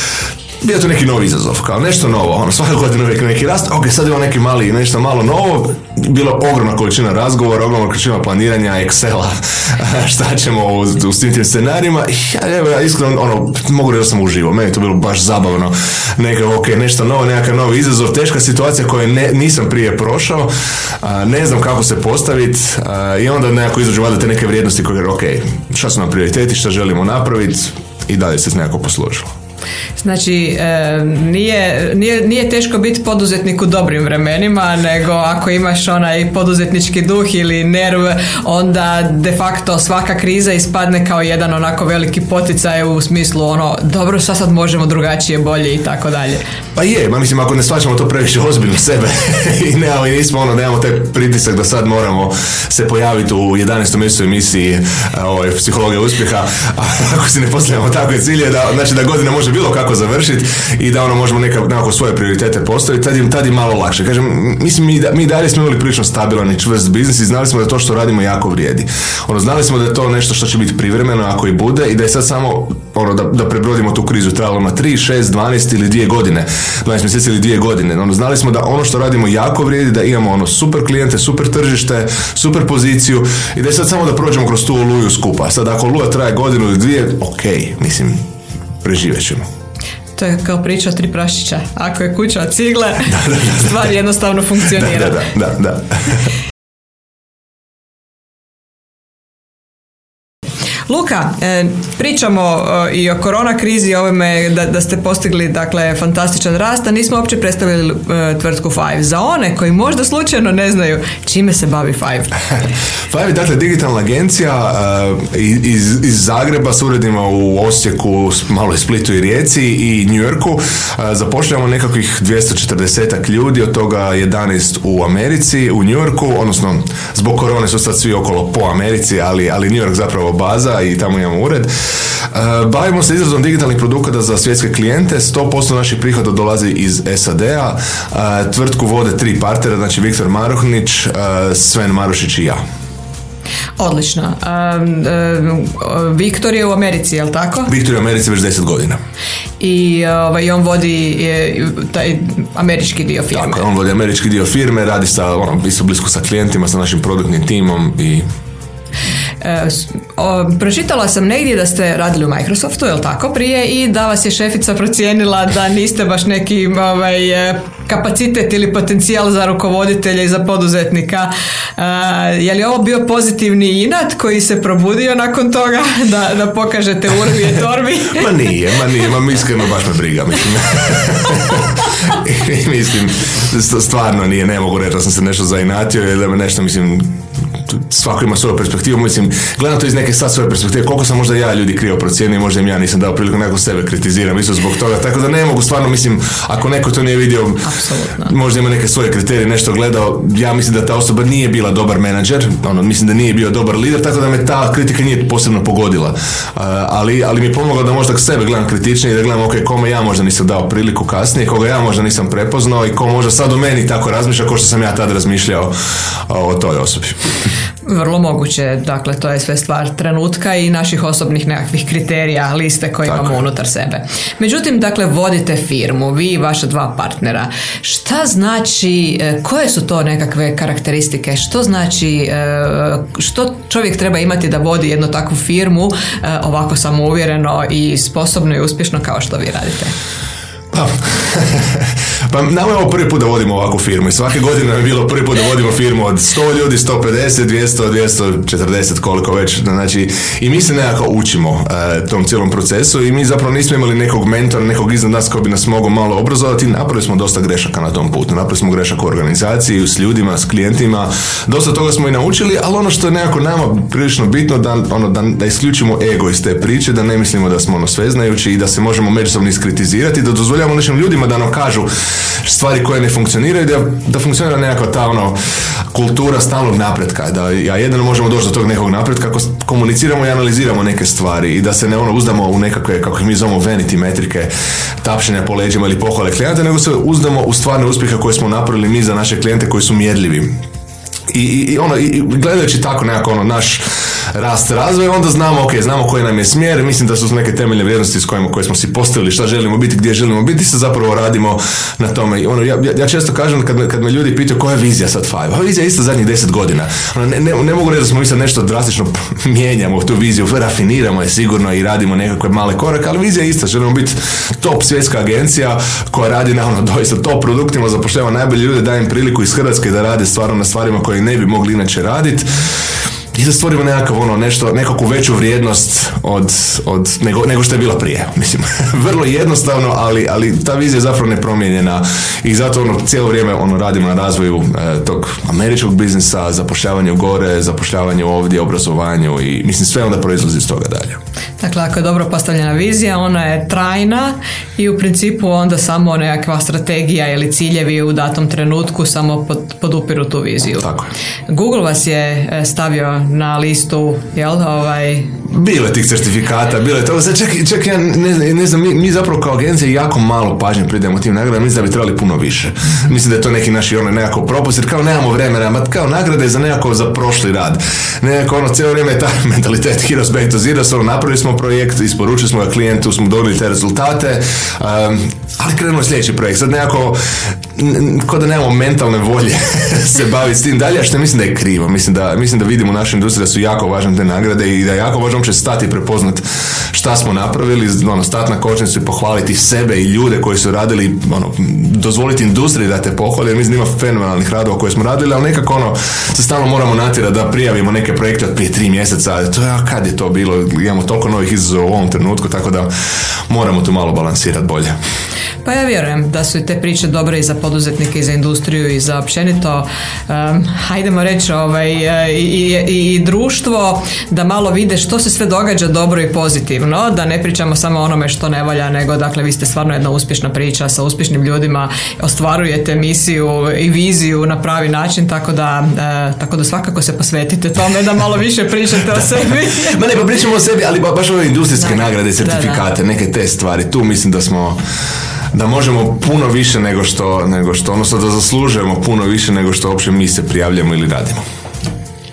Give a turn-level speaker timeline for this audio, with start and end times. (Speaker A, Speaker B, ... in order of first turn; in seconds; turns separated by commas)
Speaker A: 0.6-20.5, Speaker A: 21.0-29.3, Speaker B: 30.0-46.4, Speaker A: 46.8-88.2, Speaker A: 88.8-89.5, Speaker B: 90.2-95.3, Speaker A: 93.1-93.8, Speaker A: 94.7-96.3, Speaker B: 100.9-112.3, Speaker A: 113.1-131.7, Speaker A: 132.3-142.6, Speaker B: 143.8-147.7, Speaker A: 147.7-149.0, Speaker B: 149.6-153.6, Speaker A: 153.3-158.3, Speaker B: 159.4-178.3, Speaker A: 178.1-197.7, Speaker B: 197.6-198.3, Speaker A: 198.2-215.7, Speaker A: 216.3-217.2, Speaker B: 217.8-239.9, Speaker A: 240.7-271.9, Speaker A: 272.4-275.4, Speaker A: 275.9-284.5, Speaker A: 285.0-290.6, Speaker A: 291.3-293.8, Speaker A: 294.3-322.5, Speaker A: 323.3-341.2, Speaker B: 341.6-350.9, Speaker A: 350.8-351.1, Speaker B: 351.5-355.4, Speaker A: 355.5-377.2, Speaker A: 377.7-402.9, Speaker A: 403.5-404.9, Speaker B: 405.6-430.0, Speaker A: 429.8-434.8, Speaker B: 431.8-432.9, Speaker A: 435.5-441.4